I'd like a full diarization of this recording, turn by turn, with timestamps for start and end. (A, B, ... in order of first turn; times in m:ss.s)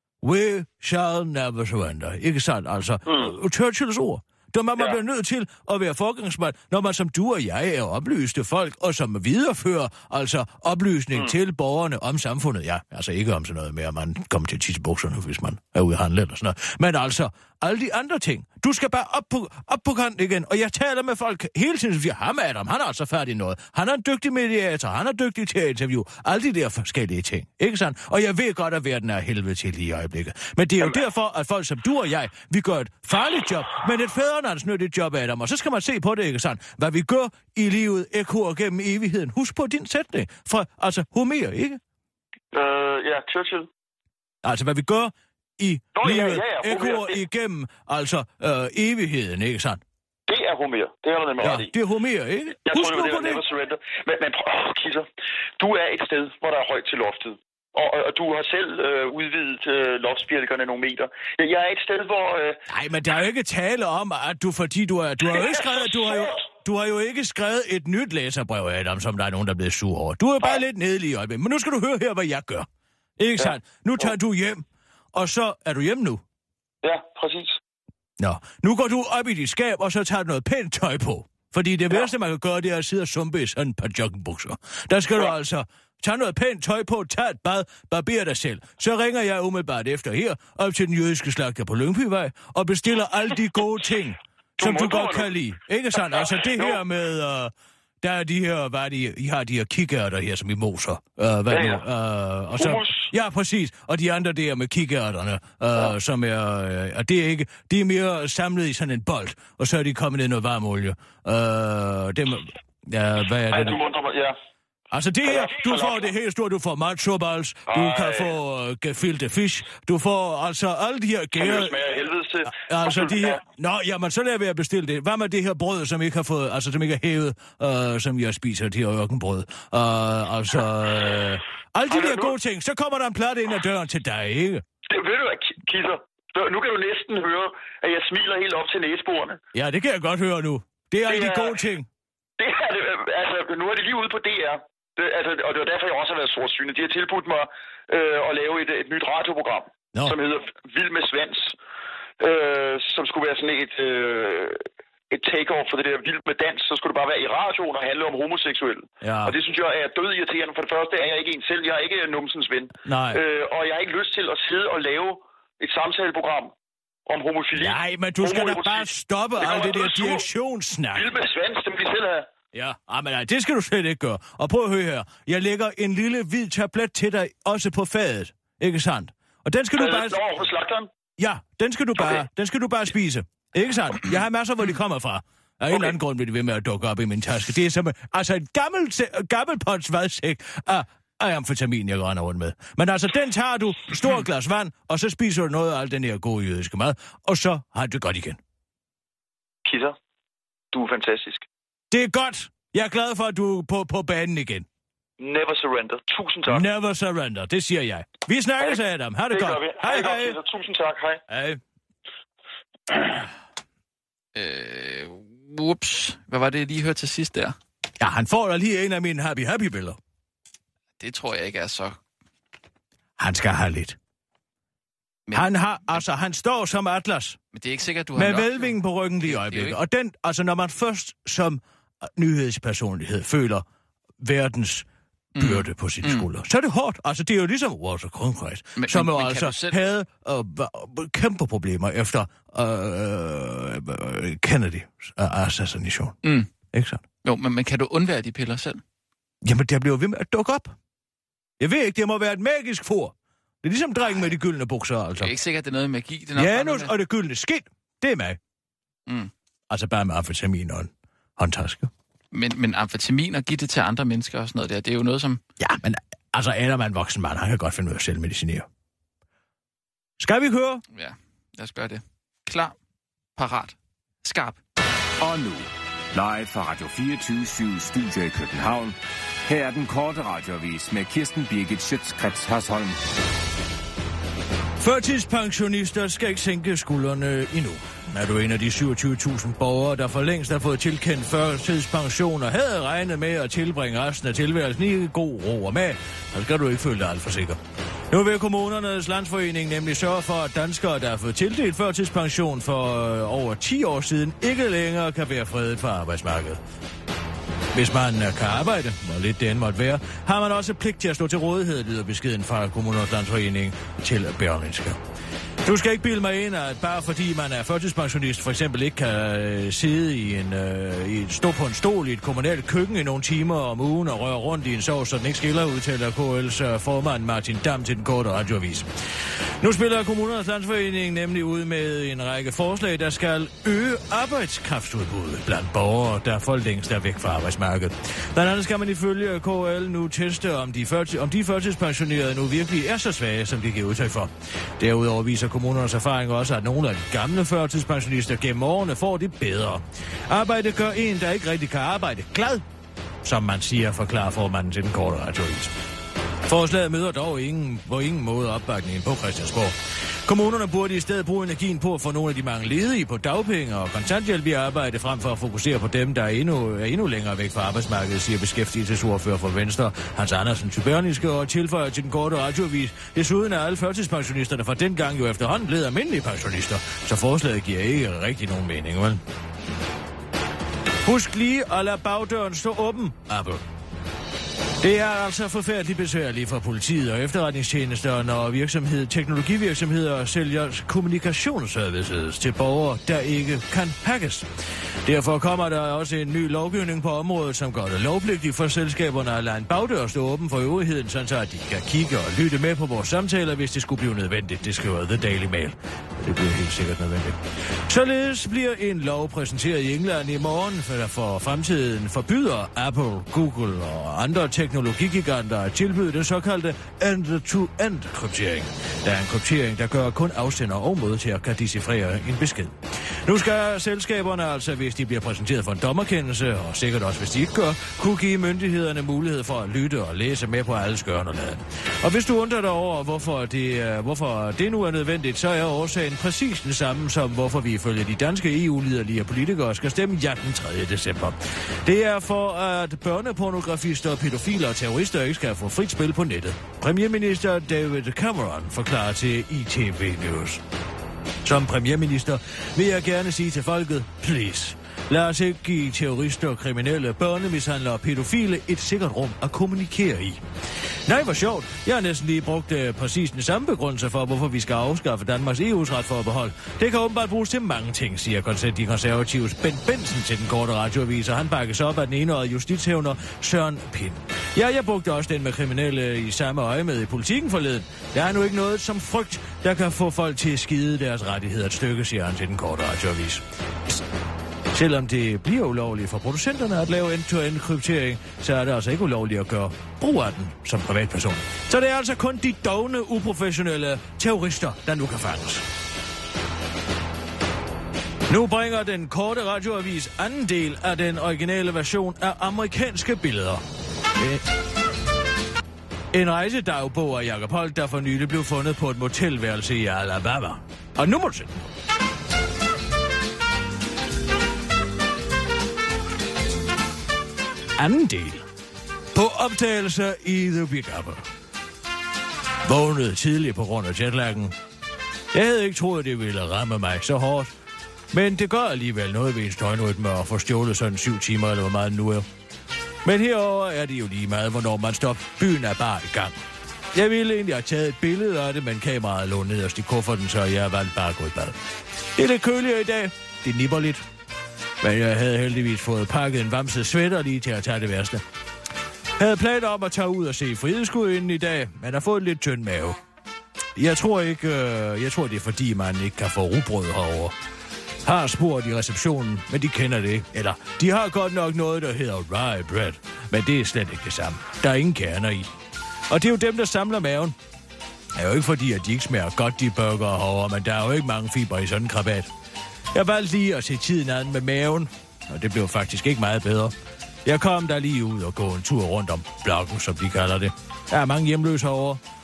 0:00.2-0:41.8 A
0:03.1-0:03.3 B
0:42.5-0:43.7 B
0:44.4-0:49.8 A
0:46.0-0:47.2 B
0:50.3-0:51.7 B
0:51.4-0:53.4 A
0:52.7-0:55.1 B
0:55.6-1:02.6 B
1:02.7-1:16.2 A
1:13.4-1:14.1 B
1:16.8-1:17.6 B
1:18.2-1:53.8 A
1:34.6-1:35.3 B
1:36.1-1:36.8 B
1:41.5-1:41.8 B
1:42.6-1:43.1 B
1:53.5-1:54.4 B
1:54.9-2:01.8 A
1:55.3-1:56.1 B
1:57.7-1:58.4 B
2:01.4-2:03.4 B
2:02.5-2:14.6 A
2:11.9-2:12.4 B
2:14.9-2:19.4 B
2:19.5-2:21.9 A
2:21.1-2:21.6 B
2:22.4-2:31.6 B
2:32.2-2:46.5 B
2:39.0-2:39.4 A
2:42.8-2:43.2 A
2:47.1-2:50.3 B
2:47.6-2:51.1 A
2:51.0-2:52.3 B
2:52.5-3:00.2 A
2:59.8-3:00.9 B
3:01.2-3:18.4 A
3:19.7-3:20.0 B
3:20.7-3:21.4 B
3:21.9-3:24.7 A
3:25.2-3:26.6 B
3:26.5-3:30.4 A
3:29.3-3:31.2 B
3:31.3-3:31.6 A
3:34.4-3:37.6 C
3:38.0-3:40.0 A
3:41.0-3:42.0 C
3:43.2-3:44.0 A
3:45.3-3:46.0 C
3:45.3-3:47.4 A
3:47.5-3:49.8 C
3:48.2-3:53.6 A
3:54.2-3:54.9 A
3:55.4-3:56.3 C
3:55.4-4:06.2 A
3:58.8-3:59.8 C
4:06.2-4:06.5 C
4:06.7-4:07.0 A
4:07.2-4:08.8 C
4:09.4-4:10.8 A
4:11.6-4:15.3 A
4:15.2-4:16.9 C
4:16.4-4:18.4 A
4:19.7-4:21.9 A
4:22.3-4:25.4 C
4:25.6-4:28.7 A
4:30.2-4:30.8 A
4:30.9-4:32.8 C
4:33.4-4:34.6 C
4:35.2-4:43.0 D
4:44.8-4:57.6 A
4:58.1-5:06.6 A
5:07.7-5:15.0 A
5:15.6-5:28.9 A
5:29.6-5:52.6 A
5:53.2-5:55.7 A
5:56.4-6:19.2 A
6:21.0-6:23.6 A
6:24.8-6:34.5 A
6:35.0-7:30.6 A
7:31.4-7:40.4 A
7:41.1-8:04.0 A
8:04.7-8:15.7 A
8:18.3-8:23.6 A
8:24.2-8:24.4 A
8:26.1-8:31.7 A
8:37.8-8:38.4 A
8:39.1-8:41.2 A
8:42.6-8:44.6 A
8:45.3-8:47.5 A
8:48.1-8:52.3 A
8:53.0-8:56.4 A
8:56.9-9:01.6 A
9:02.2-9:04.0 A
9:04.8-9:08.2 A
9:09.2-9:13.0 A
9:13.8-9:17.4 A
9:18.0-9:25.5 A
9:26.1-9:27.4 A
9:28.2-9:32.3 A
9:32.9-9:42.0 A